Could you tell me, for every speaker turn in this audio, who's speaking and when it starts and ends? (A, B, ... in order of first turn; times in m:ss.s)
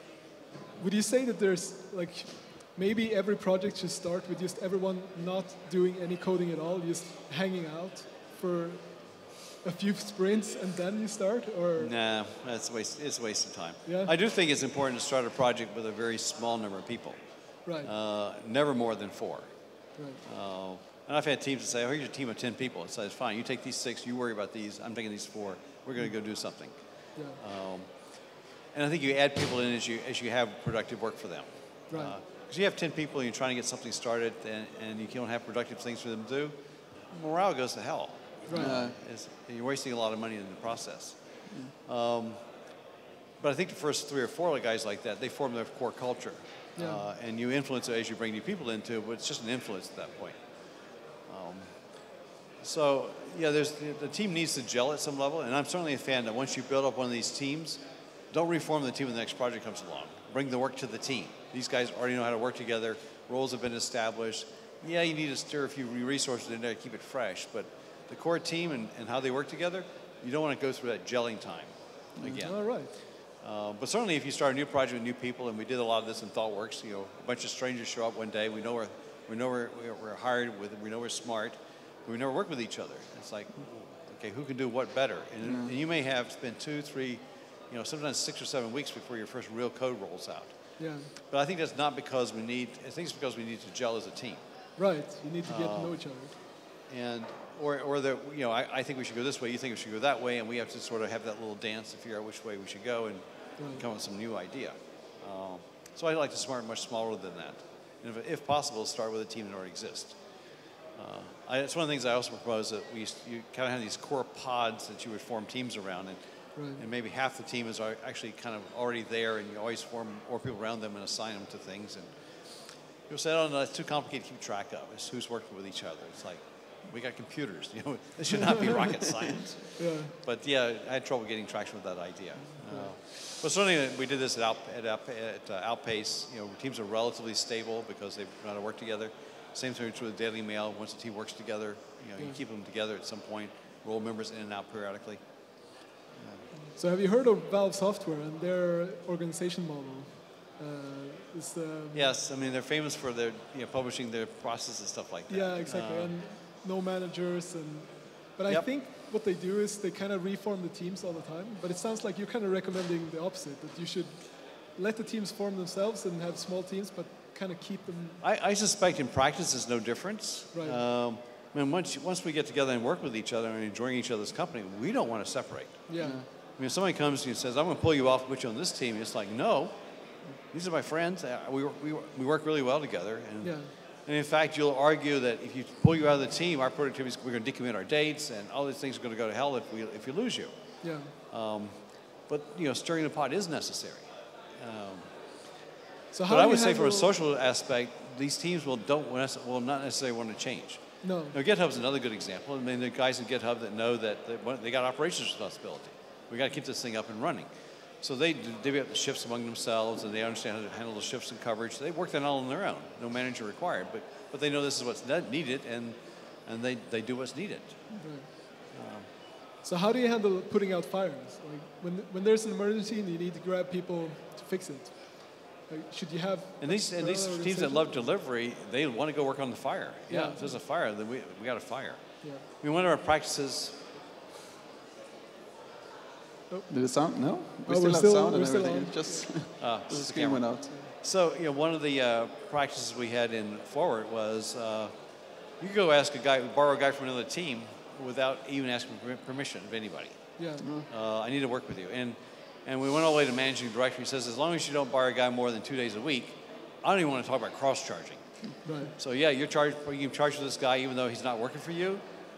0:00.8-0:11.9 A
0:11.8-0:19.5 B
0:13.8-0:14.1 A
0:17.6-0:17.9 A
0:20.0-0:20.2 A
0:20.2-0:28.1 B
0:27.1-0:27.4 A
0:28.7-0:36.5 B
0:31.9-0:32.2 A
0:37.1-0:41.2 B
0:38.5-0:38.8 A
0:38.5-0:38.9 C
0:41.8-0:42.4 B
0:43.4-0:50.4 B
0:46.8-0:47.0 A
0:51.3-0:51.7 B
0:52.6-1:34.4 B
1:12.2-1:12.4 C
1:12.4-1:12.9 A
1:25.4-1:25.7 C
1:30.8-1:31.1 A
1:34.8-1:36.3 A
1:35.4-1:36.0 B
1:36.9-1:50.2 B
1:43.6-1:43.8 A
1:51.0-1:56.2 B
1:56.6-1:56.8 A
1:56.8-2:25.5 B
2:09.8-2:10.1 A
2:12.5-2:12.9 A
2:26.1-2:26.5 B
2:26.7-2:32.1 A
2:31.9-2:36.1 B
2:35.3-2:48.2 A
2:48.2-2:59.7 B
2:50.5-2:50.8 A
2:55.9-2:56.2 A
2:56.0-2:56.3 C
3:00.5-3:10.5 B
3:03.4-3:03.7 A
3:10.8-3:11.1 A
3:11.1-3:15.1 B
3:16.1-3:17.1 A
3:16.3-3:27.5 B
3:21.0-3:21.4 A
3:28.0-3:38.1 B
3:38.0-3:38.3 A
3:38.7-3:39.1 B
3:39.6-3:48.0 A
3:46.6-3:53.8 B
3:50.1-3:50.5 A
3:56.7-4:00.8 C
3:57.6-3:59.3 A
3:59.6-4:04.9 B
4:05.6-4:10.4 B
4:10.4-4:10.7 A
4:10.6-4:10.9 C
4:10.9-4:18.2 B
4:18.6-4:18.9 A
4:18.9-4:22.0 B